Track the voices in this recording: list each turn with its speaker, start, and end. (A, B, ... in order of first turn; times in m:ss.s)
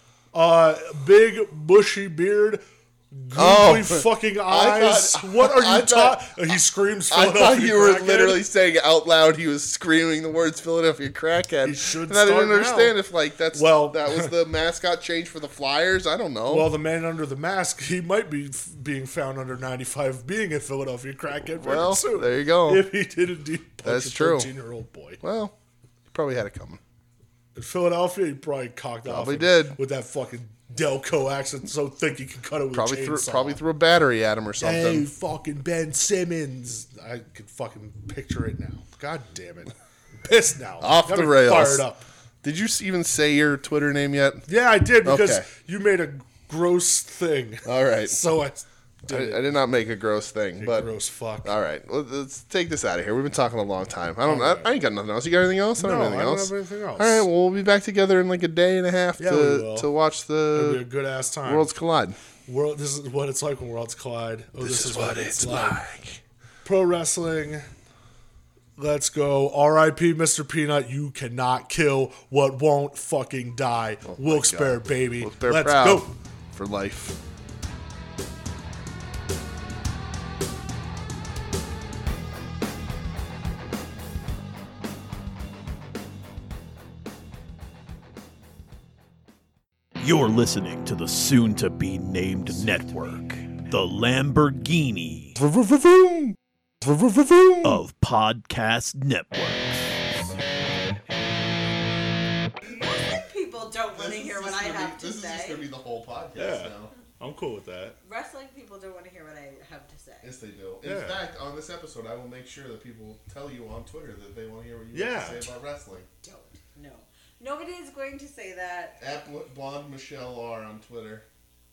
0:00.3-0:08.4 A
0:03.3-0:06.3 B
0:07.1-0:16.7 B
0:11.6-0:13.0 A
0:13.5-0:14.3 A
0:16.5-0:25.2 A
0:21.6-0:22.8 B
0:23.8-0:24.5 B
0:25.2-0:25.5 B
0:26.1-0:26.8 B
0:27.5-0:33.6 A
0:29.0-0:29.8 B
0:32.7-0:35.1 B
0:34.6-0:42.0 A
0:40.8-0:41.9 B
0:42.4-0:44.5 B
0:44.5-0:49.4 A
0:45.0-0:45.5 B
0:47.6-0:48.2 B
0:49.1-0:50.9 B
0:50.6-0:51.5 A
0:51.4-1:00.8 B
0:54.2-0:54.7 A
0:55.8-0:57.2 A
0:59.2-0:59.9 A
1:00.5-1:01.7 A
1:01.4-1:02.2 B
1:02.4-1:05.8 A
1:04.6-1:06.2 B
1:06.6-1:07.7 A
1:08.8-1:16.1 A
1:14.1-1:17.2 B
1:30.0-1:35.4 C
1:35.4-1:37.7 B
1:37.6-1:40.0 C
1:42.6-1:45.6 D
1:43.9-1:46.9 B
1:46.4-1:48.0 A
1:48.0-1:50.3 D
1:50.2-1:56.1 B
1:50.8-1:51.2 A
1:54.9-1:55.5 A
1:56.2-1:59.0 D
1:59.0-2:01.2 B